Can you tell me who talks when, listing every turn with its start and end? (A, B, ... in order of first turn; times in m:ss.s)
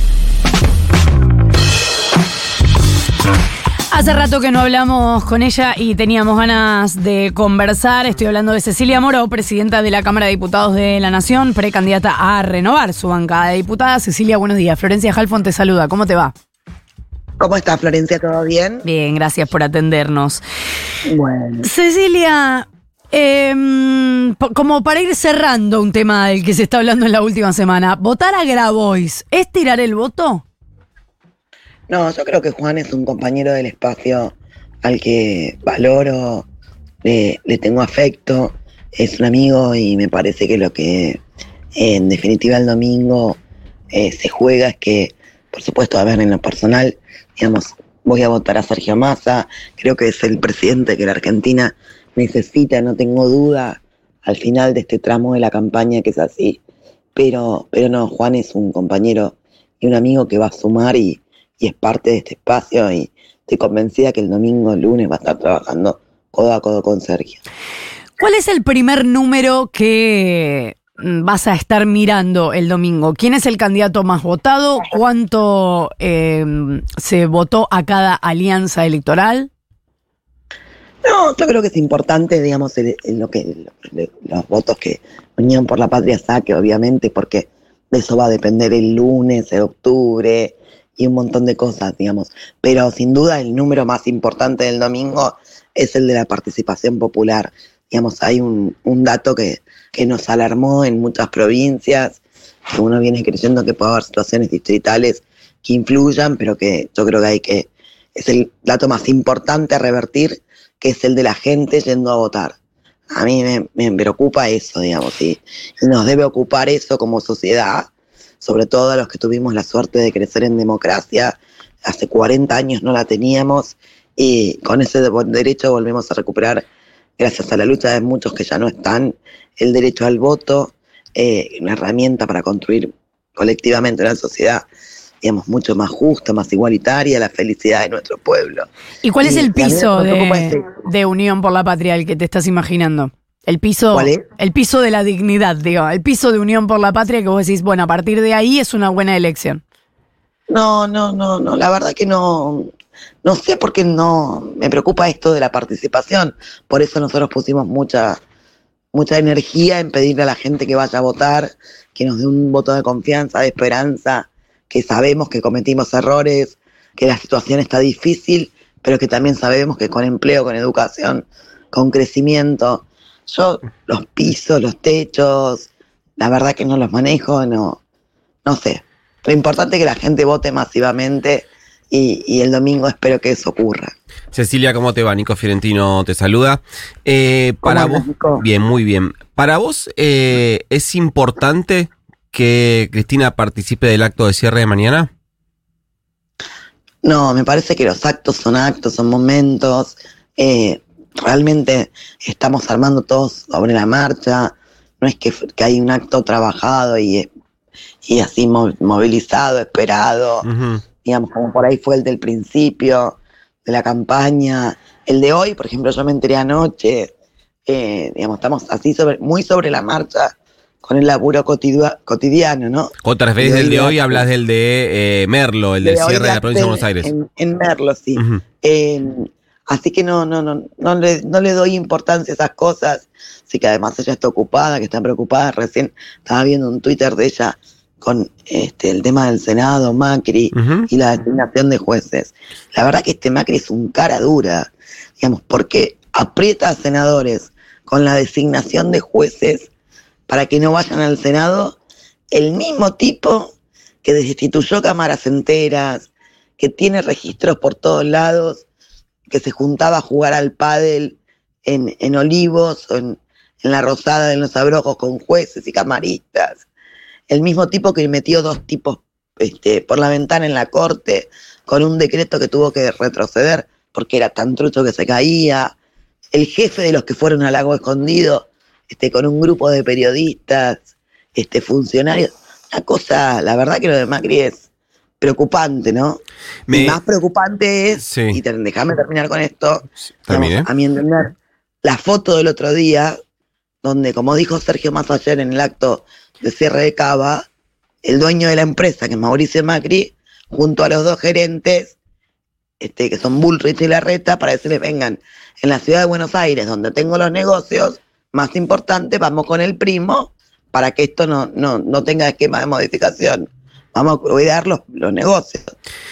0:03.9-0:16.3 A
0:17.4-0:18.8 B
0:18.8-0:20.4 A
0:21.0-0:21.7 B
0:21.6-0:30.4 A
0:31.9-0:36.4 B
0:37.0-0:41.2 B
0:41.7-0:43.4 B
0:43.9-0:56.6 B
0:57.1-1:07.4 B
1:08.2-1:19.5 A
1:21.0-1:42.2 B
1:42.7-1:52.6 B
1:53.1-1:57.9 B
1:58.4-2:06.6 B
2:07.2-2:14.6 B
2:15.2-2:18.7 B
2:19.0-2:29.6 A
2:19.2-2:20.6 B
2:23.9-2:24.2 B
2:30.5-2:32.7 B
2:33.2-2:38.2 B
2:38.9-2:57.8 B
2:58.4-3:03.9 B
3:04.3-3:15.1 C
3:07.6-3:08.4 B
3:17.0-3:27.3 B
3:28.0-3:30.4 B
3:30.4-3:30.8 C
3:31.0-3:37.1 B
3:37.6-3:44.3 B
3:43.0-3:47.1 C
3:45.8-4:09.7 B
4:00.5-4:00.8 C
4:10.3-4:11.8 B
4:12.3-4:18.6 B
4:19.3-4:26.6 B
4:27.3-4:35.7 B
4:36.3-4:44.6 B
4:45.2-4:51.3 B
4:46.7-4:47.0 C
4:48.0-4:48.4 C
4:50.3-4:50.7 C
4:51.8-4:53.1 B
4:53.8-4:57.4 B
4:58.0-5:02.0 B
5:02.8-5:15.7 B